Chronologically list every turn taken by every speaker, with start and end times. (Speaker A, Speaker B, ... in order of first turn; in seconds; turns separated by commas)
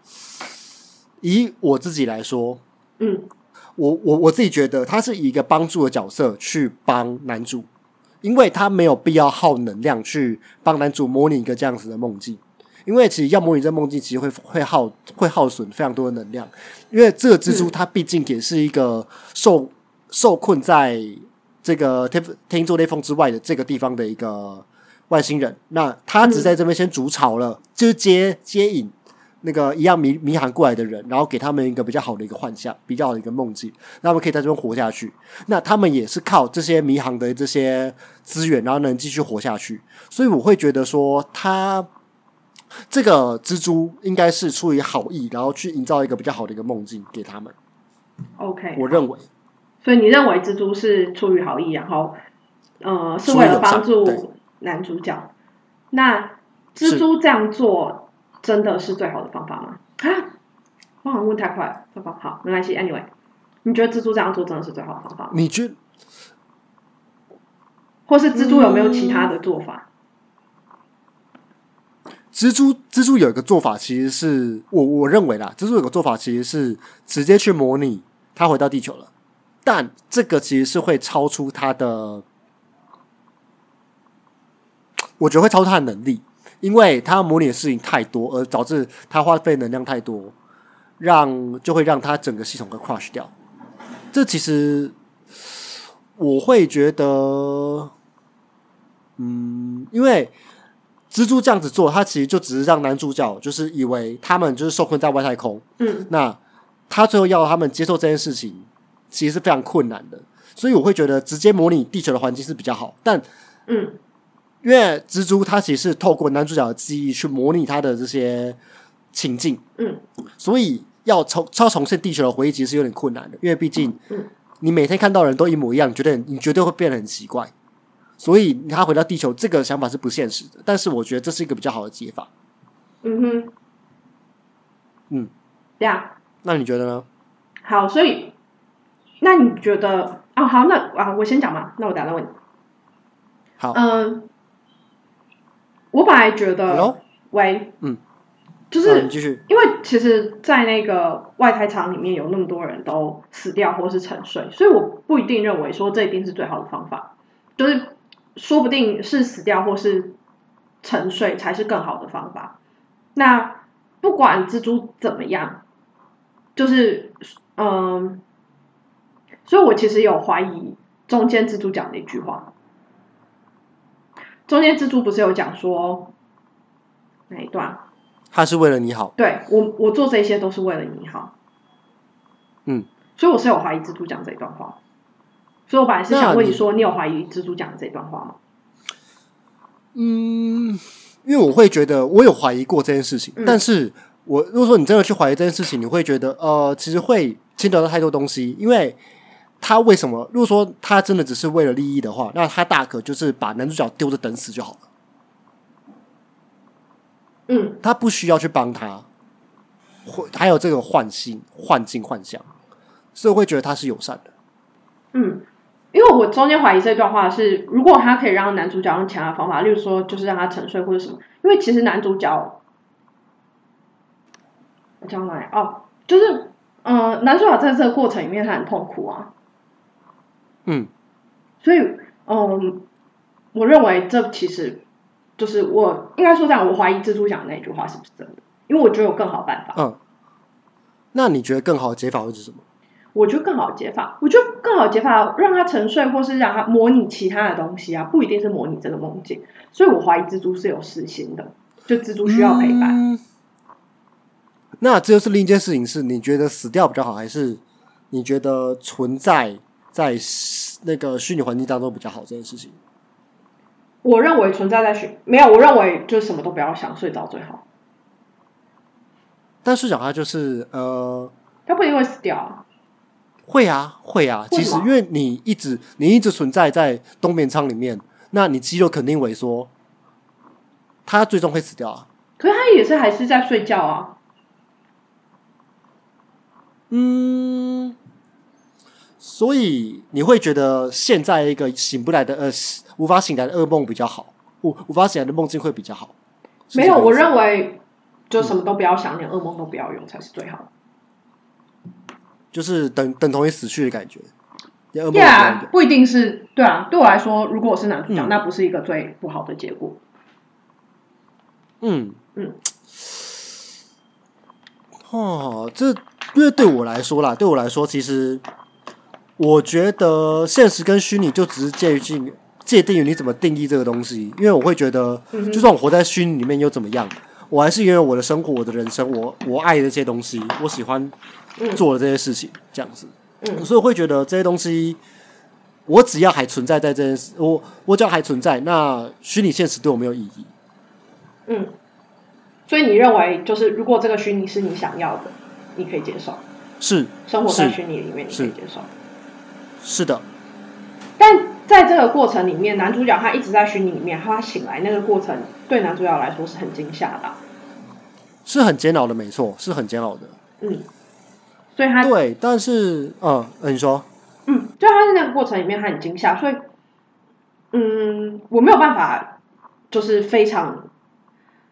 Speaker A: 1.2-2.6, Speaker B: 3.0-3.3, Speaker A: 3.8-7.7, Speaker A: 8.2-41.9, Speaker B: 17.5-17.7, Speaker B: 26.2-26.5, Speaker A: 42.9-47.5, Speaker B: 48.4-49.0, Speaker A: 48.8-49.3, Speaker B: 49.8-52.2, Speaker B: 52.8-55.3, Speaker A: 53.3-54.2, Speaker B: 55.9-60.3, Speaker B: 61.0-63.1, Speaker B: 63.6-65.4, Speaker A: 65.3-65.8, Speaker B: 68.1-69.9, Speaker A: 68.3-69.3, Speaker A: 72.3-79.1, Speaker A: 79.7-82.2, Speaker A: 85.2-90.3, Speaker A: 91.0-93.3, Speaker A: 94.1-95.6, Speaker A: 96.2-97.9, Speaker A: 99.2-100.3, Speaker A: 101.1-106.4, Speaker B: 105.8-106.1, Speaker A: 106.9-113.2, Speaker B: 113.7-114.0, Speaker A: 114.6-118.6, Speaker A: 119.1-119.6, Speaker A: 120.4-124.0, Speaker A: 124.6-127.5, Speaker A: 128.2-132.3, Speaker B: 133.0-133.5, Speaker B: 135.8-136.1, Speaker A: 136.4-137.1, Speaker B: 137.7-138.3, Speaker B: 139.2-142.3, Speaker B: 143.7-144.3, Speaker B: 145.9-147.8, Speaker A: 146.7-147.0, Speaker B: 148.7-160.2, Speaker A: 148.8-149.4, Speaker B: 160.8-162.6, Speaker B: 163.2-165.6, Speaker B: 166.6-168.2, Speaker B: 169.5-172.5, Speaker B: 174.5-176.1, Speaker B: 177.3-177.8, Speaker A: 178.3-179.1, Speaker B: 179.2-181.3, Speaker B: 183.2-184.8, Speaker B: 185.7-188.4, Speaker A: 186.1-186.6, Speaker A: 189.9-199.0, Speaker A: 199.6-204.8, Speaker B: 207.5-207.8, Speaker A: 207.8-209.1, Speaker A: 210.1-212.5, Speaker A: 213.2-214.3, Speaker B: 215.1-222.6, Speaker B: 225.0-229.3, Speaker B: 231.6-232.9, Speaker B: 233.5-234.8, Speaker B: 235.4-239.8, Speaker A: 241.1-242.6, Speaker B: 243.2-253.0, Speaker A: 252.2-253.2, Speaker A: 254.8-262.8, Speaker B: 264.0-267.6, Speaker A: 269.6-271.3, Speaker B: 271.7-272.6, Speaker A: 273.5-279.7, Speaker B: 274.5-274.9, Speaker A: 281.1-282.1, Speaker B: 282.4-284.2, Speaker A: 286.9-288.0, Speaker A: 289.2-296.1, Speaker A: 296.7-297.3, Speaker B: 296.7-300.7, Speaker A: 302.5-304.3, Speaker A: 304.9-305.7, Speaker B: 305.1-310.0, Speaker A: 308.1-308.4, Speaker A: 311.8-312.2, Speaker A: 315.1-318.4, Speaker A: 319.4-331.1, Speaker B: 325.3-325.7, Speaker B: 331.6-331.8, Speaker A: 331.8-335.0, Speaker B: 333.4-333.7, Speaker A: 335.9-340.5, Speaker B: 341.5-341.7, Speaker B: 342.7-346.4, Speaker A: 346.8-347.8, Speaker B: 347.3-348.9, Speaker A: 349.8-350.2, Speaker B: 351.2-357.4, Speaker A: 358.5-360.4, Speaker B: 360.6-360.9, Speaker B: 361.8-362.1, Speaker A: 362.0-364.1, Speaker B: 364.5-366.7, Speaker B: 367.7-369.4, Speaker B: 369.9-370.9